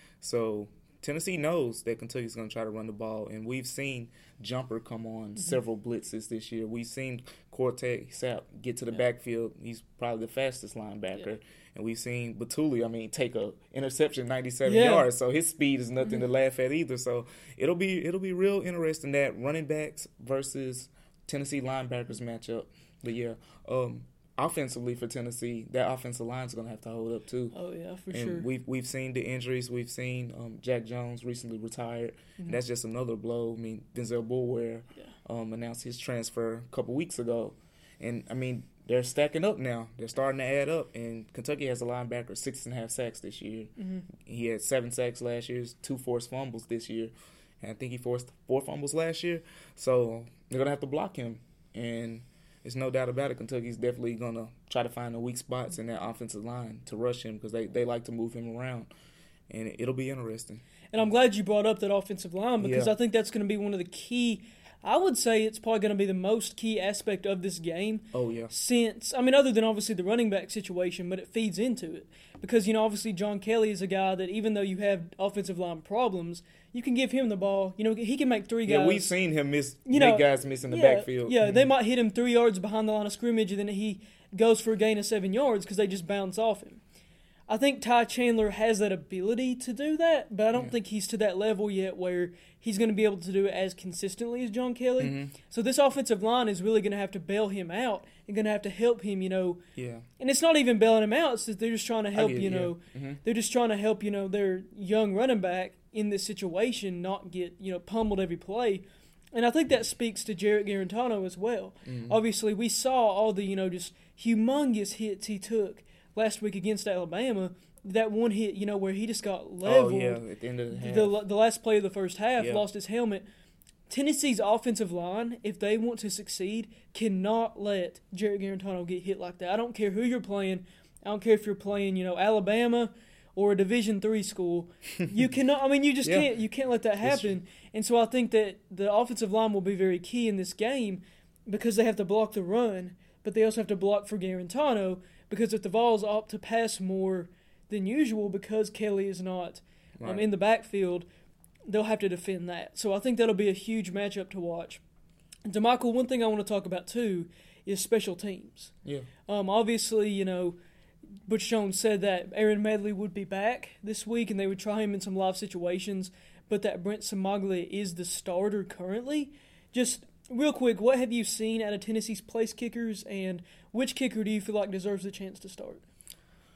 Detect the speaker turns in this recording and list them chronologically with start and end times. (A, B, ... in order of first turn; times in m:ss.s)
0:00.2-0:27.6 A
0:14.6-0:15.1 B
0:27.5-0:28.5 B
0:28.1-0:58.9 A
0:43.8-0:44.1 B
0:59.5-1:00.6 A
1:00.9-1:19.2 B
1:02.6-1:02.9 A
1:08.1-1:08.5 A
1:18.7-1:21.6 A
1:19.8-1:26.8 B
1:27.5-1:39.6 B
1:35.0-1:35.4 A
1:39.8-1:40.0 A
1:40.2-2:03.2 B
1:42.1-1:43.2 A
1:51.8-1:52.2 A
1:59.6-2:01.2 A
2:02.4-2:02.6 A
2:03.9-2:31.0 B
2:17.0-2:17.4 A
2:30.0-2:30.2 A
2:31.7-2:34.8 B
2:35.5-2:38.7 B
2:38.8-2:39.1 A
2:39.3-2:40.6 B
2:41.3-2:55.8 B